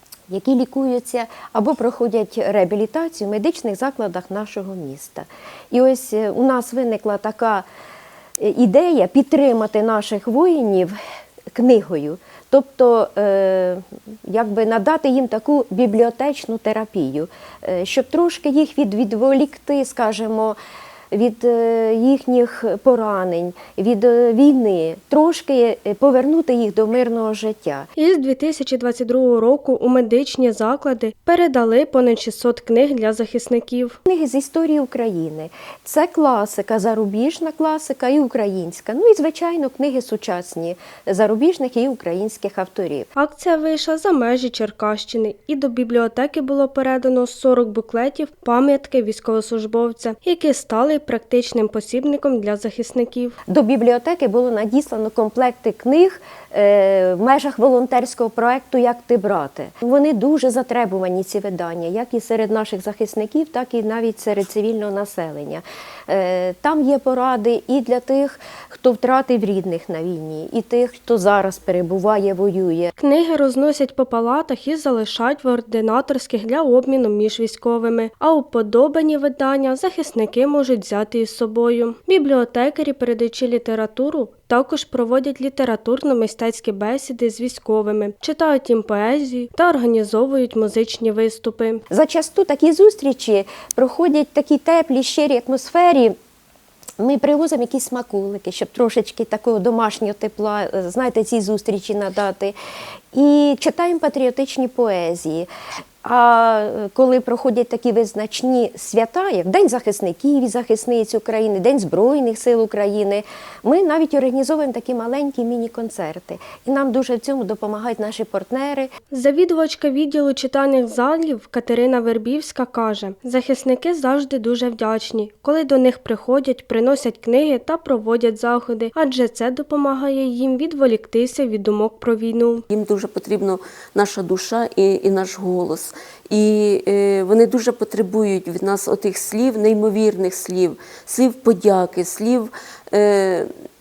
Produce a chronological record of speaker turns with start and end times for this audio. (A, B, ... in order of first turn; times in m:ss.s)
0:00.3-0:07.6 A
0:08.4-0:11.0 A
0:11.5-0:20.6 A
0:21.1-0:27.9 A
0:28.0-0:34.0 B
0:34.0-0:43.1 A
0:43.2-0:53.4 B
0:53.5-1:12.9 A
1:13.0-1:31.8 B
1:31.9-1:36.2 A
1:37.0-1:42.6 A
1:43.1-1:45.5 A
1:46.0-1:58.9 A
1:59.1-2:12.6 B
2:12.7-2:23.5 C